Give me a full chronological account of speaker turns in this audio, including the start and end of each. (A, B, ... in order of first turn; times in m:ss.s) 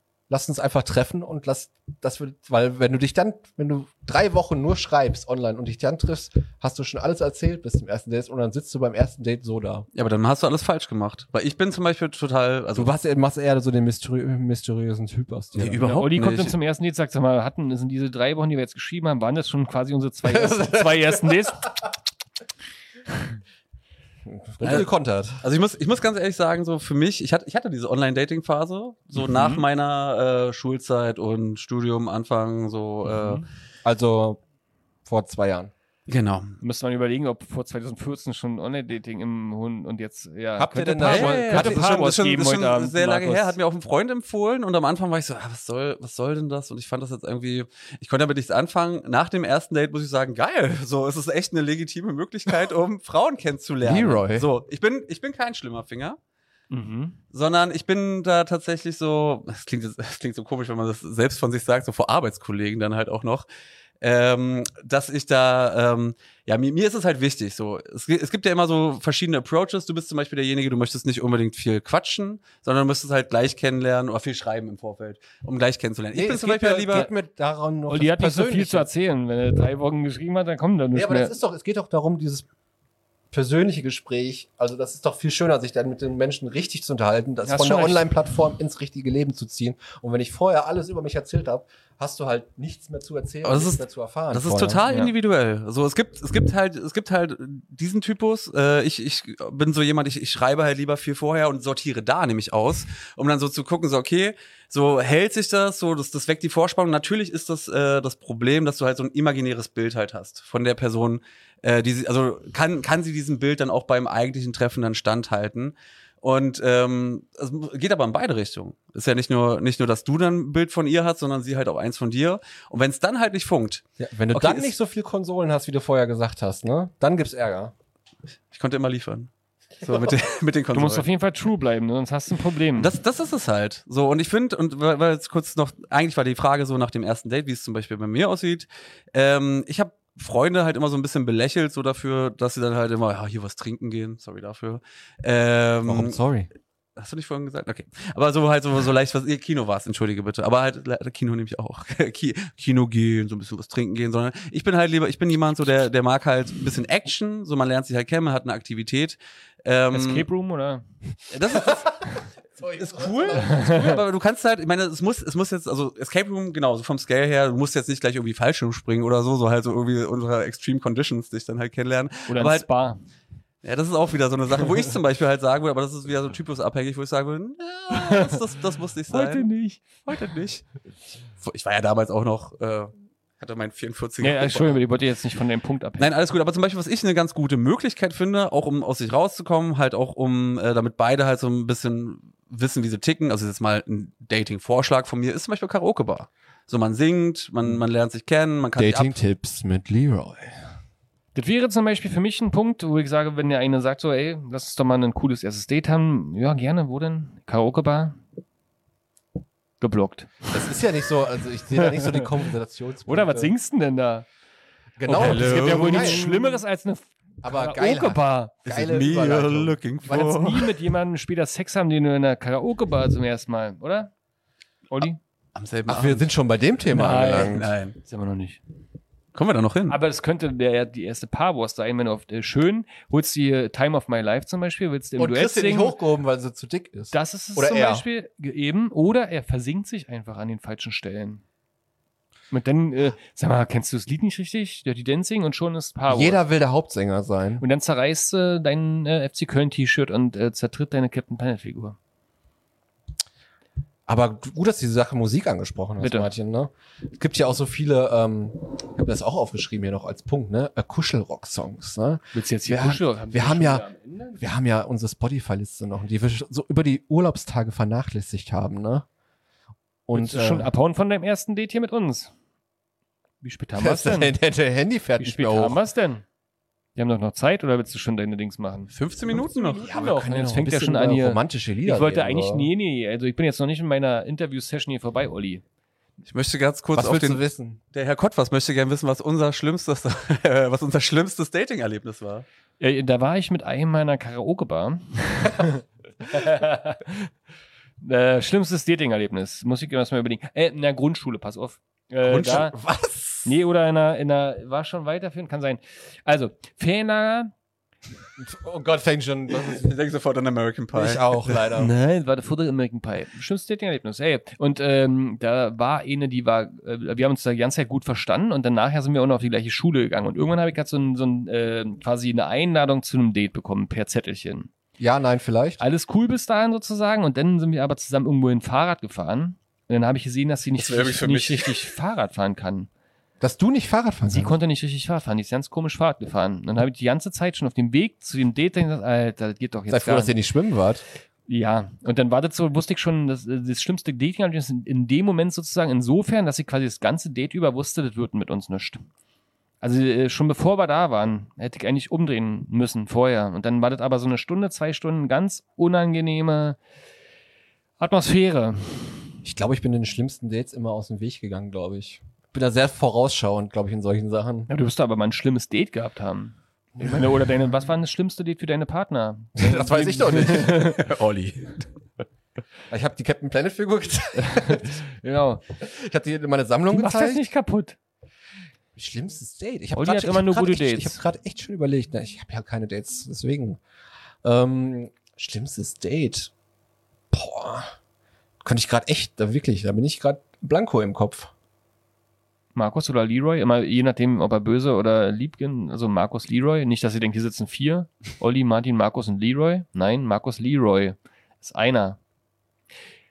0:00.3-0:09.9 A
0:09.9-0:12.9 B
0:12.8-0:15.8 A
0:15.6-0:16.6 B
0:15.8-0:21.7 C
0:20.3-0:21.4 A
0:24.3-0:25.4 A
0:24.6-0:24.9 B
0:25.4-0:33.4 B
0:29.2-0:29.6 C
0:33.1-0:33.4 C
0:33.8-0:34.4 A
0:35.1-0:35.7 A
0:36.1-0:36.6 B
0:36.6-0:43.6 C
0:40.6-0:41.9 A
0:41.0-0:56.2 B
0:53.8-0:54.5 A
0:56.7-0:57.2 C
0:57.3-1:03.5 B
1:04.0-1:17.1 B
1:16.1-1:18.9 A
1:17.9-1:21.4 C
1:20.9-1:22.5 A
1:23.3-1:34.8 A
1:27.5-1:28.1 C
1:33.4-2:04.7 B
2:04.0-2:07.7 A
2:08.5-2:11.1 B
2:10.7-2:12.9 C
2:12.8-2:26.2 B
2:25.9-2:26.5 A
2:27.0-2:40.3 B
2:39.9-2:40.8 C
2:41.3-2:42.0 B
2:42.6-2:43.8 A
2:42.6-2:52.7 B
2:43.4-2:44.0 C
2:52.3-2:53.0 C
2:53.6-3:00.7 B
2:57.9-2:58.4 C
2:59.1-3:00.0 C
3:01.4-3:04.8 B
3:04.2-3:06.1 C
3:06.0-3:19.1 B
3:18.8-3:20.6 A
3:21.4-3:28.2 C
3:29.8-3:30.6 C
3:30.5-3:33.5 A
3:31.8-3:32.3 C
3:33.1-3:34.2 C
3:35.0-3:36.4 A
3:35.1-3:38.6 C
3:35.1-3:36.4 B
3:37.4-3:39.8 A
3:38.6-3:40.7 B
3:40.1-3:44.1 C
3:44.9-3:45.2 C
3:45.6-3:46.3 B
3:45.9-3:47.7 A
3:46.9-3:48.6 C
3:47.3-3:48.0 B
3:49.3-3:50.0 B
3:49.9-3:56.0 C
3:55.2-3:58.0 A
3:57.1-4:01.4 C
4:02.5-4:06.4 C
4:06.1-4:07.6 A
4:07.6-4:12.0 C
4:14.1-4:23.8 A
4:16.0-4:16.3 C
4:22.3-4:24.4 C
4:24.4-4:29.1 A
4:30.1-4:30.7 A
4:30.1-4:32.3 C
4:33.4-4:34.4 C
4:33.8-4:35.8 A
4:35.2-4:36.2 C
4:37.0-4:38.9 C
4:38.9-4:39.9 B
4:39.5-4:45.6 C
4:39.8-4:42.7 A
4:46.2-4:47.4 B
4:47.0-4:47.8 A
4:47.9-4:52.5 B
4:52.8-4:57.3 C
4:58.0-5:02.8 C
5:02.2-5:03.3 B
5:03.4-5:07.5 C
5:08.4-5:09.9 A
5:09.5-5:11.6 B
5:10.9-5:11.9 A
5:11.8-5:24.7 C
5:25.0-5:25.8 A
5:25.8-5:32.9 C
5:30.8-5:31.9 B
5:33.4-5:34.6 A
5:34.3-5:40.3 C
5:39.9-5:41.0 A
5:41.5-5:49.0 C
5:49.8-5:56.8 C
5:58.0-5:59.2 C
5:59.4-6:04.7 A
6:04.7-6:11.0 C
6:09.6-6:10.9 A
6:10.6-6:11.9 B
6:12.9-6:15.0 A
6:14.5-6:15.6 C
6:15.8-6:17.5 A
6:16.9-6:18.0 C
6:19.0-6:23.8 A
6:20.0-6:21.2 C
6:24.4-6:26.5 A
6:27.3-6:28.0 A
6:28.6-6:31.5 A
6:32.8-6:42.2 C